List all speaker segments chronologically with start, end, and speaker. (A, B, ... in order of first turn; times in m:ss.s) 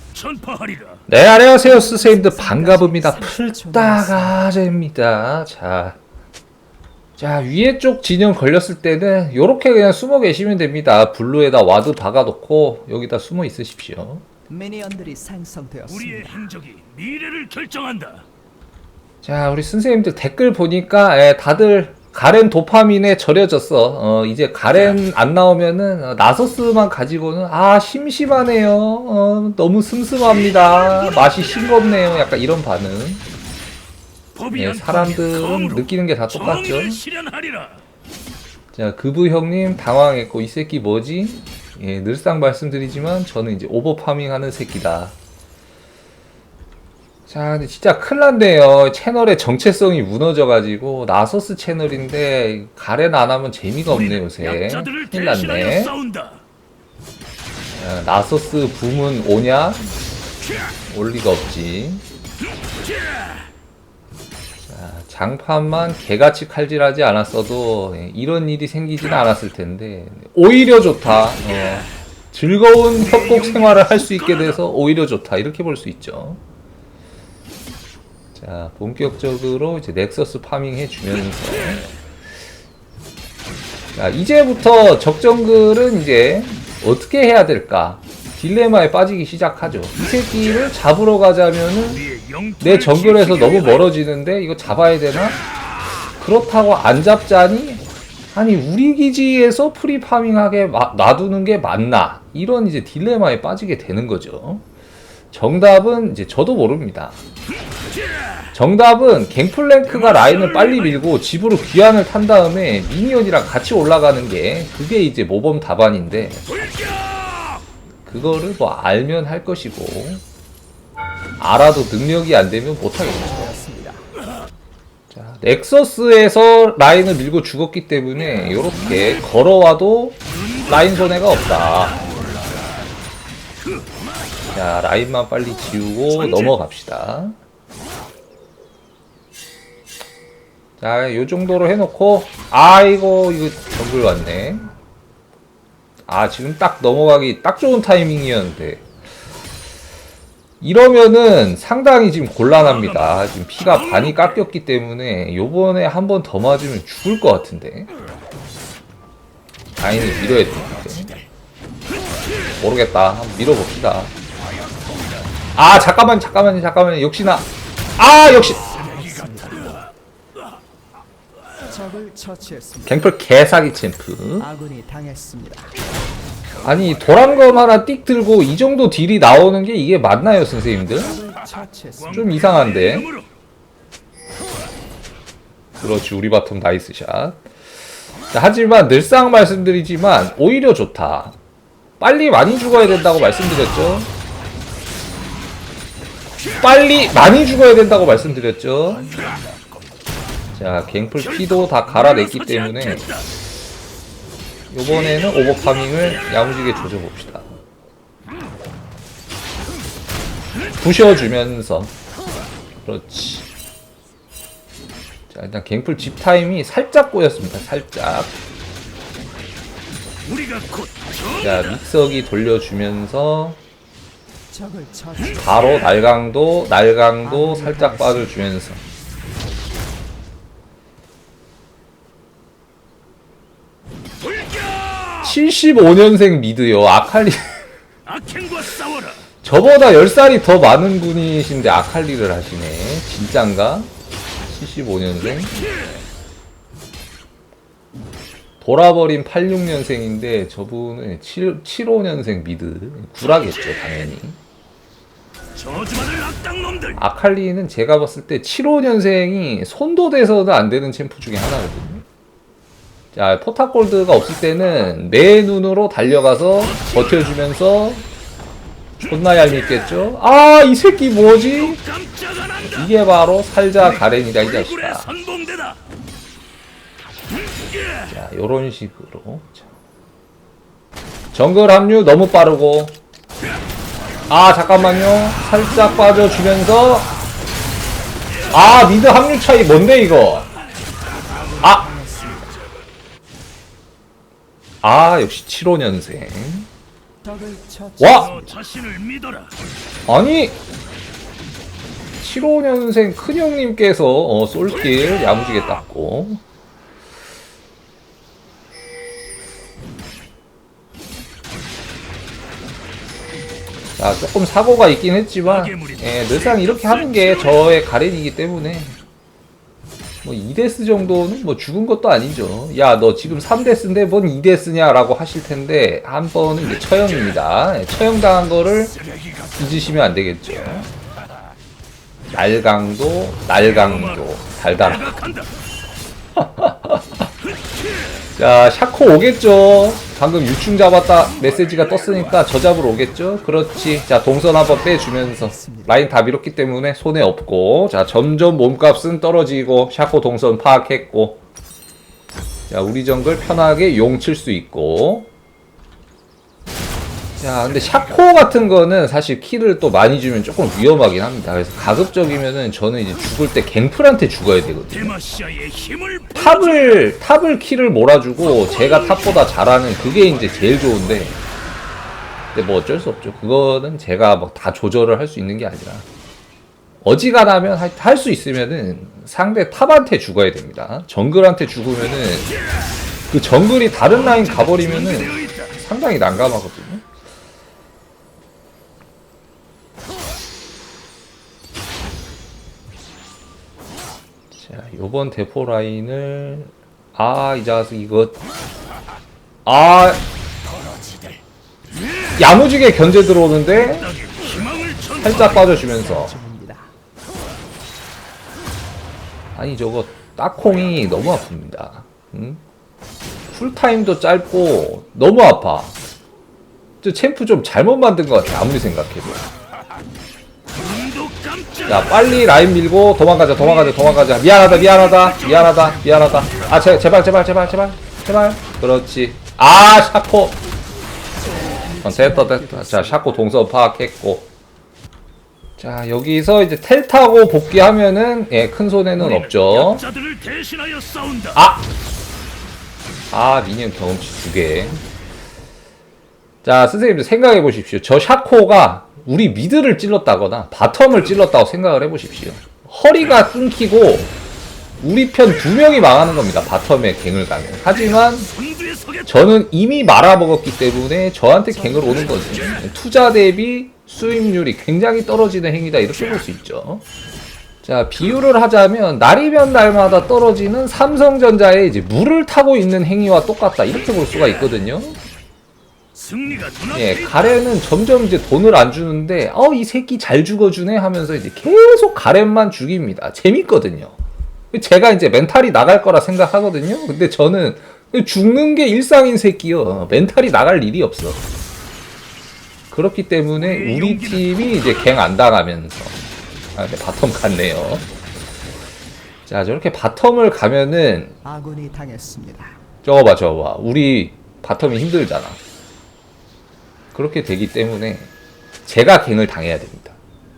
0:00.1-0:01.0 A
0:01.1-0:06.0 B
0:01.6-0:04.4 C
0:07.2-0:14.2 B
0:14.5-0:16.4 C
0:15.9-0:18.2 A
0:19.2-0:33.2 B
0:34.4-0:37.8 A
0:34.5-0:37.0 B
0:38.7-0:45.1 B
0:47.3-0:56.0 B
0:53.9-0:56.4 A
0:57.7-0:59.9 B
1:00.9-1:02.0 B
1:04.7-1:16.4 B
1:18.3-1:21.9 B
1:24.0-1:32.1 B
1:32.0-1:33.8 A
1:32.6-1:35.4 B
1:36.2-1:44.6 B
1:45.3-1:47.2 B
1:48.5-1:56.5 B
1:58.0-2:00.2 B
2:01.4-2:03.6 B
2:03.3-2:04.1 C
2:05.1-2:12.0 B
2:14.5-2:17.4 B
2:20.8-2:24.7 B
2:26.1-2:28.8 B
2:30.6-2:37.9 B
2:39.8-2:41.1 B
2:42.6-2:44.1 B
2:45.6-2:48.7 B
2:48.5-2:49.9 C
2:51.7-2:53.0 C
2:52.9-2:54.5 B
2:54.4-2:55.7 C
2:56.6-3:01.2 B
3:01.0-3:02.4 C
3:02.1-3:03.1 B
3:02.5-3:03.2 A
3:05.8-3:07.4 B
3:08.3-3:11.4 B
3:12.0-3:14.1 B
3:16.6-3:19.1 B
3:20.6-3:23.2 B
3:22.3-3:23.2 A
3:24.7-3:27.5 B
3:30.8-3:31.9 B
3:32.8-3:33.5 B
3:35.3-3:38.4 B
3:40.2-3:41.3 A
3:41.4-3:43.6 B
3:44.5-3:45.5 C
3:45.3-3:48.8 B
3:47.2-3:48.3 C
3:54.4-3:55.2 A
3:55.2-3:57.5 B
3:58.0-3:59.2 A
3:59.4-4:03.9 B
4:04.5-4:05.7 B
4:08.6-4:14.4 B
4:15.6-4:17.0 A
4:17.0-4:22.0 B
4:23.1-4:28.0 B
4:29.0-4:31.8 B
4:31.5-4:32.6 A
4:32.6-4:35.2 B
4:34.3-4:35.8 A
4:38.1-4:39.7 B
4:41.3-4:43.0 B
4:44.3-4:47.1 B
4:48.5-4:50.5 B
4:51.3-4:52.6 C
4:51.6-4:51.9 B
4:54.8-4:56.7 B
4:57.2-4:58.7 C
4:58.0-4:58.3 B
4:58.4-4:59.5 A
5:00.1-5:00.6 B
5:02.2-5:06.4 B
5:14.0-5:19.0 B
5:15.6-5:16.9 A
5:20.2-5:29.0 B
5:29.6-5:30.9 B
5:32.3-5:35.2 B
5:35.1-5:35.5 A
5:36.4-5:37.3 B
5:38.4-5:51.4 B
5:45.4-5:45.9 C
5:52.7-5:55.3 B
5:57.4-6:05.2 B
6:05.1-6:07.0 A
6:06.3-6:11.4 B
6:12.5-6:16.0 B
6:17.0-6:22.5 B
6:23.3-6:27.0 B
6:24.6-6:25.4 A
6:34.5-6:38.4 B
6:39.6-6:40.2 B
6:42.4-6:46.3 B
6:44.1-6:45.3 A
6:45.5-6:46.9 C
6:49.5-6:52.6 B
6:53.5-6:55.9 B
6:57.0-6:59.4 B
7:00.7-7:01.9 A
7:01.8-7:10.6 B
7:04.5-7:06.0 A
7:11.4-7:13.2 C
7:12.0-7:14.5 B
7:15.8-7:20.0 B
7:19.3-7:21.5 A
7:21.5-7:21.9 B
7:23.3-7:25.0 B
7:26.6-7:34.3 B
7:35.0-7:38.5 B
7:38.7-7:39.2 A
7:39.2-7:47.0 B
7:41.8-7:42.5 C
7:47.8-7:55.2 B
7:56.2-7:57.2 A
7:56.9-8:04.1 B
8:04.7-8:11.4 B
8:12.9-8:16.2 B
8:13.7-8:14.4 A
8:16.7-8:18.1 B
8:19.5-8:21.4 B
8:21.4-8:22.8 C
8:23.0-8:25.6 B
8:27.1-8:28.3 B
8:28.8-8:30.2 B